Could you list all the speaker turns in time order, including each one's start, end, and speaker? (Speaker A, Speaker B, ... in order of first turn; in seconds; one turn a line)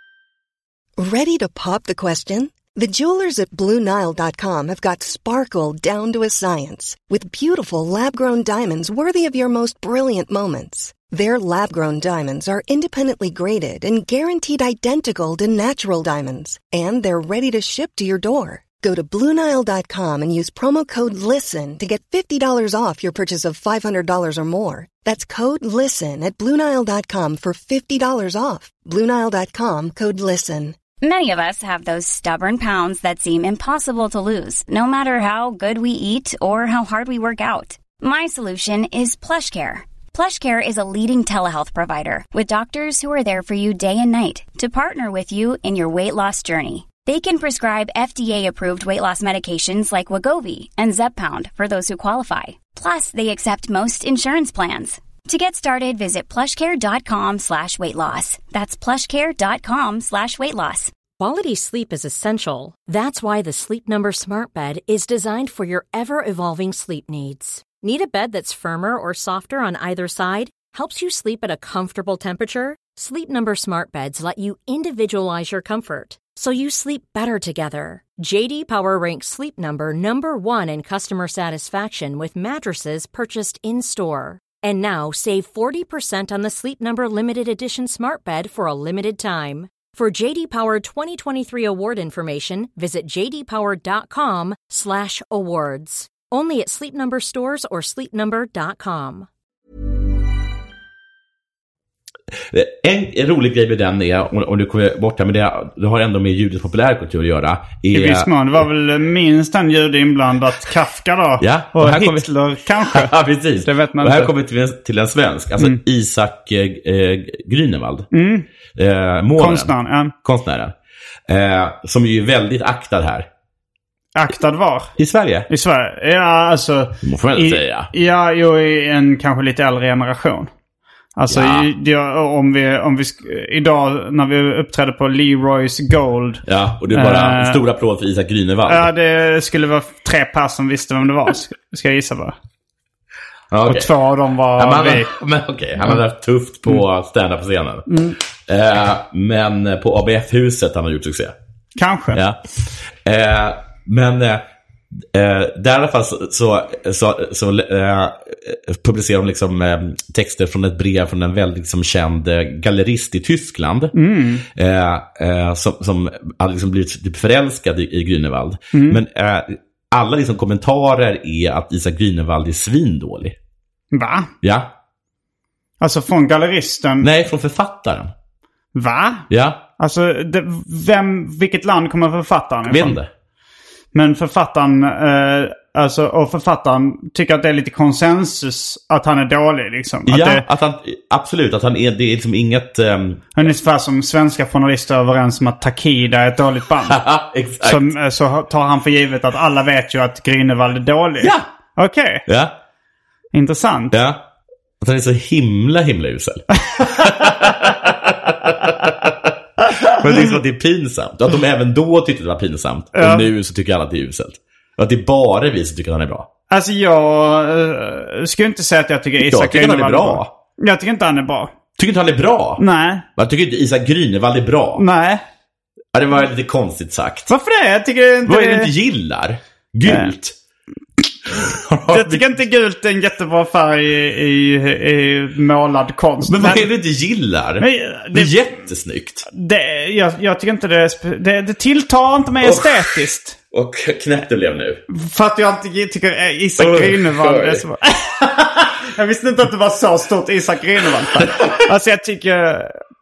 Speaker A: 1.0-30.8
Speaker B: 31.0-60.9
Speaker C: 61.2-99.3
Speaker D: 102.5-108.3
Speaker E: 107.9-114.3
Speaker D: 111.4-112.3
Speaker D: 112.8-118.1
Speaker E: 118.1-118.5
Speaker D: 118.7-120.7
Speaker E: 119.4-120.1
Speaker D: 121.3-123.3
Speaker E: 124.1-124.9
Speaker D: 125.0-125.5
Speaker E: 125.5-130.5
Speaker D: 127.0-127.9
Speaker E: 131.2-137.6
Speaker D: 131.3-131.7
Speaker D: 136.4-138.9
Speaker E: 138.7-142.3
Speaker D: 143.5-143.9
Speaker E: 143.7-145.1
Speaker D: 144.6-147.9
Speaker E: 147.9-148.2
Speaker D: 148.4-151.3
Speaker E: 151.8-152.2
Speaker D: 152.1-154.4
Speaker D: 155.1-163.9
Speaker E: 163.9-164.4
Speaker D: 164.4-173.3
Speaker E: 168.7-169.0
Speaker E: 173.9-174.3
Speaker D: 174.4-174.7
Speaker E: 175.8-177.1
Speaker D: 177.0-178.1
Speaker E: 178.7-183.0
Speaker D: 179.3-179.6
Speaker D: 182.7-183.1
Speaker E: 183.9-190.4
Speaker D: 190.1-193.3
Speaker E: 193.3-197.0
Speaker D: 196.9-197.9
Speaker E: 197.6-202.2
Speaker D: 201.2-201.4
Speaker D: 202.3-202.5
Speaker E: 203.3-203.9
Speaker D: 203.9-204.2
Speaker D: 204.8-216.3
Speaker E: 212.9-213.3
Speaker E: 216.5-221.5
Speaker D: 219.2-220.3
Speaker D: 221.8-222.6
Speaker E: 222.6-223.1
Speaker D: 223.2-224.8
Speaker E: 224.8-225.2
Speaker D: 225.9-227.3
Speaker E: 227.3-228.7
Speaker D: 228.2-230.3
Speaker E: 229.8-230.1
Speaker D: 231.3-232.3
Speaker E: 231.8-236.7
Speaker D: 236.2-239.2
Speaker E: 237.6-238.3
Speaker E: 239.3-243.4
Speaker D: 242.4-244.8
Speaker E: 244.9-252.8
Speaker D: 246.6-247.6
Speaker D: 251.2-251.6